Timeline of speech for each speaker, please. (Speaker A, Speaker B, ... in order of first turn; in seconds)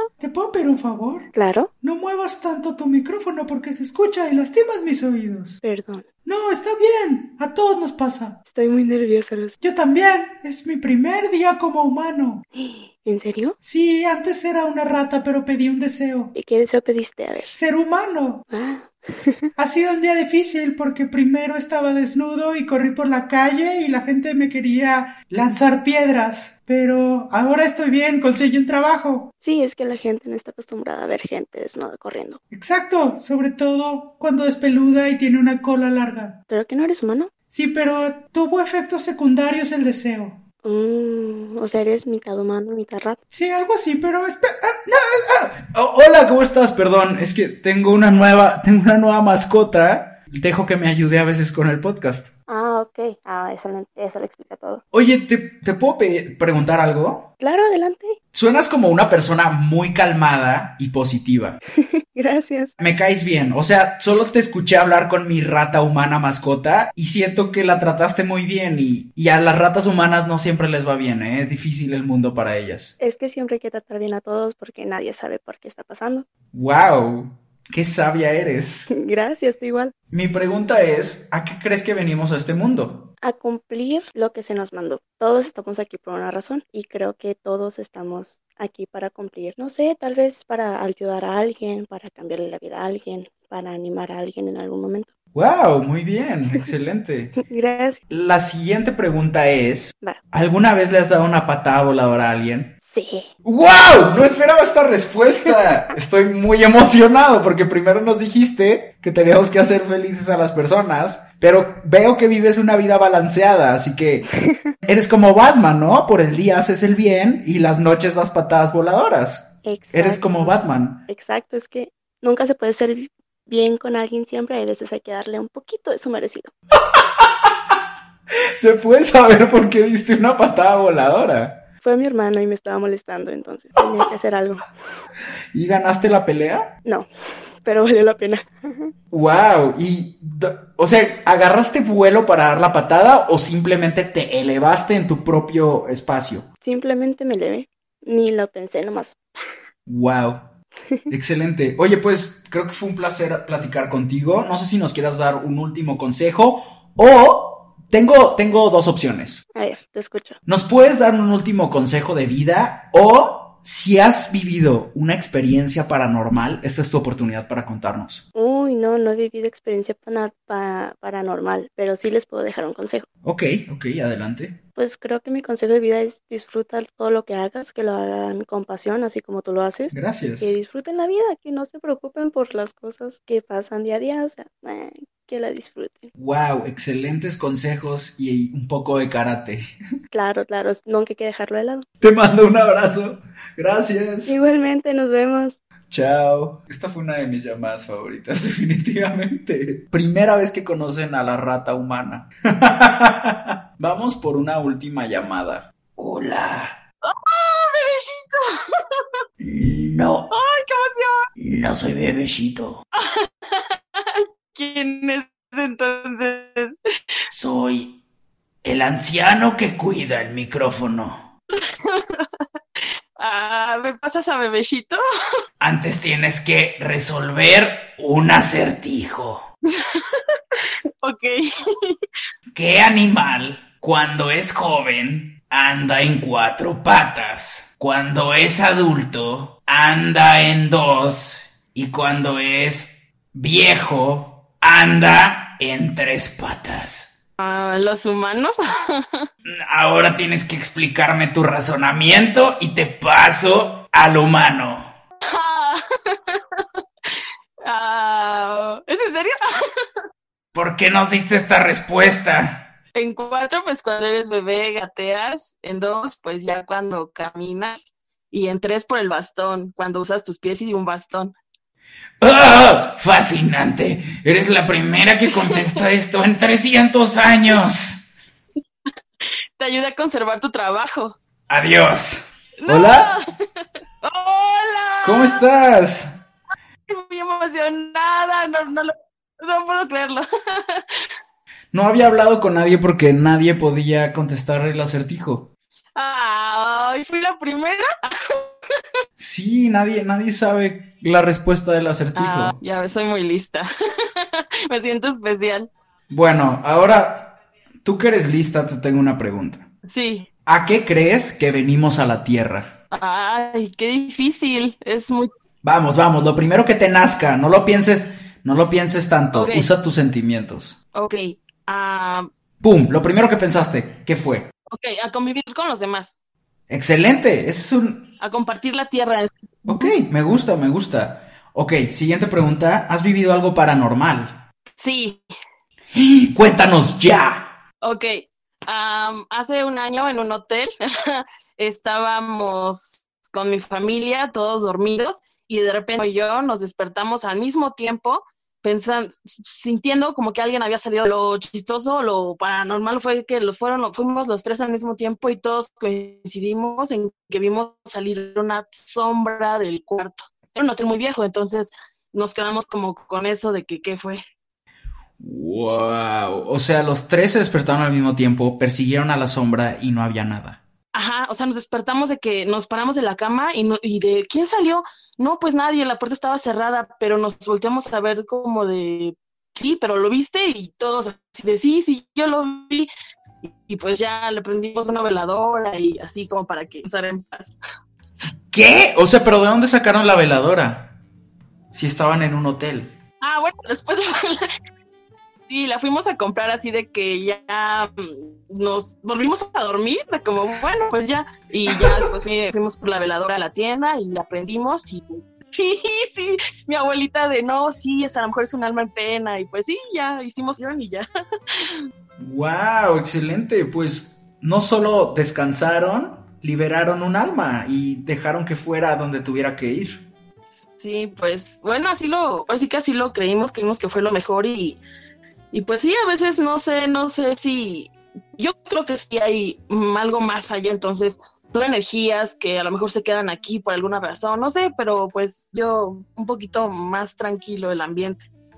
Speaker A: 0.2-1.3, 1.8-5.6, 6.2-8.4, 9.6-12.4, 13.6-16.3, 17.4-18.4, 19.6-29.3, 32.5-36.4, 37.5-40.4, 43.3-52.3, 54.9-57.3, 58.3-61.6, 62.8-72.9, 76.5-78.9, 80.1-83.1, 95.3-97.4, 98.1-102.7, 103.5-114.3, 114.8-121.0, 127.0-127.5, 128.6-131.6, 135.5-136.7, 139.1-146.5, 149.9-150.4, 151.1-159.4, 160.5-168.2, 173.2-174.6, 179.9-180.6, 186.2-189.6, 192.0-194.4, 195.9-206.8, 209.4-210.3, 211.4-212.8, 217.3-218.0, 218.6-221.3, 225.6-229.5, 232.5-247.1, 249.4-254.9, 260.5-262.7, 272.2-278.0, 281.5-283.1, 285.0-286.2, 291.7-295.5, 299.2-302.6, 306.1-309.6, 310.5-312.8, 315.6-320.8, 322.6-324.5, 326.7-328.1, 329.7-334.4, 335.9-337.5, 365.2-370.6, 388.5-390.9, 391.7-392.9, 412.2-420.0
Speaker B: 1.4-1.7, 5.6-6.1, 8.5-9.6, 12.6-13.6, 16.3-17.5, 18.5-19.5, 29.4-32.4, 36.5-37.3, 40.6-43.2, 52.5-54.8, 57.4-58.2, 61.8-62.8, 73.0-76.3, 78.9-79.9, 83.2-95.1, 97.4-98.0, 102.8-103.3, 114.5-114.7, 119.7-120.6, 121.1-126.5, 131.8-134.7, 137.6-138.9, 146.6-149.2, 159.6-160.4, 168.3-173.1, 174.8-186.1, 190.1-191.9, 194.3-195.6
Speaker C: 207.0-209.0, 210.3-211.3, 213.0-216.8, 221.6-225.0, 229.7-232.0, 247.4-249.3, 255.2-259.9, 262.9-271.3, 275.3-275.7, 279.6-281.2, 282.6-283.2, 284.0-285.4, 286.9-291.1, 296.0-298.8, 302.2-305.7, 309.9-310.3, 312.9-315.3, 319.3-319.7, 320.9-322.3, 324.7-326.2, 328.2-329.9, 334.8-335.2, 337.8-364.2, 370.9-382.9, 383.4-387.6, 393.2-394.5, 395.5-411.8, 420.5-424.8, 425.5-438.3